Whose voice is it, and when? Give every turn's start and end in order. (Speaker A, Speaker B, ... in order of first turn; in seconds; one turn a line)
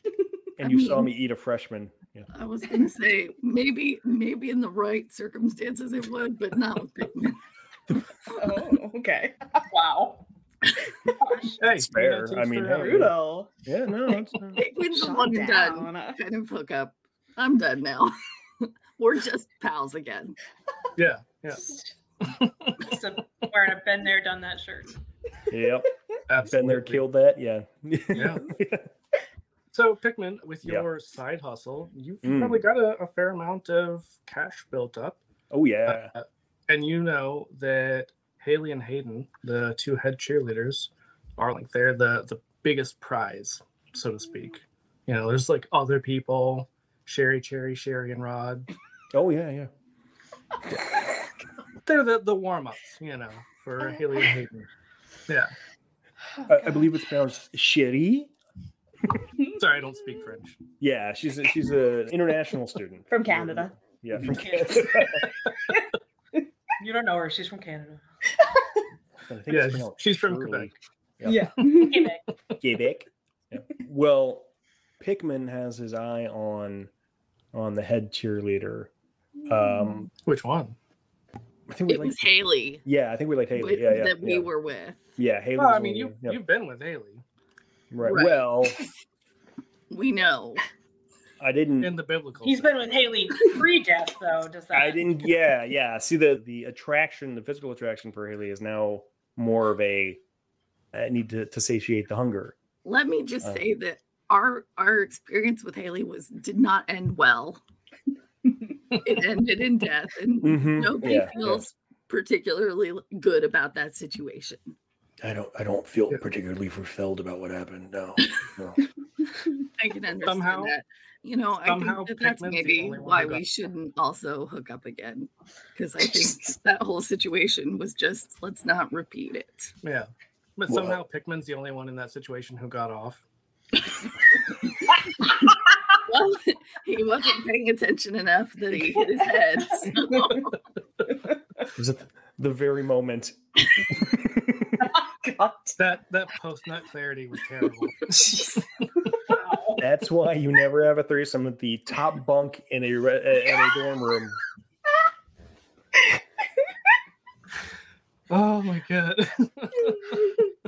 Speaker A: 0.6-2.3
Speaker B: 0.6-1.1
Speaker B: 2.3-7.4
Speaker C: 8.3-9.6
Speaker D: 9.7-10.2
Speaker D: 11.1-11.6
Speaker E: 11.6-13.1
Speaker A: 11.7-13.1
Speaker C: 12.8-13.5
Speaker A: 13.6-14.6
Speaker B: 14.6-20.4
Speaker C: 14.9-16.2
Speaker E: 20.9-22.9
Speaker D: 22.8-25.0
Speaker A: 25.5-28.9
Speaker E: 26.3-27.0
Speaker E: 28.1-28.5
Speaker E: 29.7-35.2
Speaker A: 32.2-32.6
Speaker A: 35.5-36.1
Speaker E: 35.9-48.7
Speaker A: 49.1-49.7
Speaker E: 51.8-54.7
Speaker A: 56.5-58.3
Speaker E: 59.5-60.6
Speaker A: 60.8-65.3
Speaker C: 63.1-63.7
Speaker D: 64.2-65.2
Speaker D: 66.8-68.0
Speaker A: 69.3-71.6
Speaker E: 69.5-70.8
Speaker C: 71.2-72.1
Speaker E: 71.6-71.9
Speaker D: 71.9-72.2
Speaker A: 72.6-76.9
Speaker A: 77.5-78.9
Speaker A: 79.5-80.1
Speaker E: 80.2-80.8
Speaker A: 81.7-84.5
Speaker B: 81.9-82.8
Speaker B: 83.5-85.2
Speaker A: 85.2-86.4
Speaker E: 85.5-87.2
Speaker A: 87.9-88.8
Speaker B: 88.0-88.7
Speaker B: 89.9-90.6
Speaker A: 91.4-92.0
Speaker E: 91.8-92.7
Speaker D: 92.4-95.1
Speaker A: 94.7-100.2
Speaker A: 100.9-102.5
Speaker B: 102.8-107.6
Speaker B: 108.9-114.8
Speaker A: 110.4-111.7
Speaker A: 115.2-118.8
Speaker B: 119.8-129.7
Speaker E: 120.2-120.7
Speaker E: 121.6-123.4
Speaker E: 129.8-133.2
Speaker A: 130.7-131.0
Speaker B: 136.0-140.5
Speaker C: 140.1-140.4
Speaker A: 141.7-144.9
Speaker C: 145.1-145.8
Speaker E: 145.8-148.5
Speaker D: 149.3-149.8
Speaker A: 149.8-154.4
Speaker E: 158.3-160.3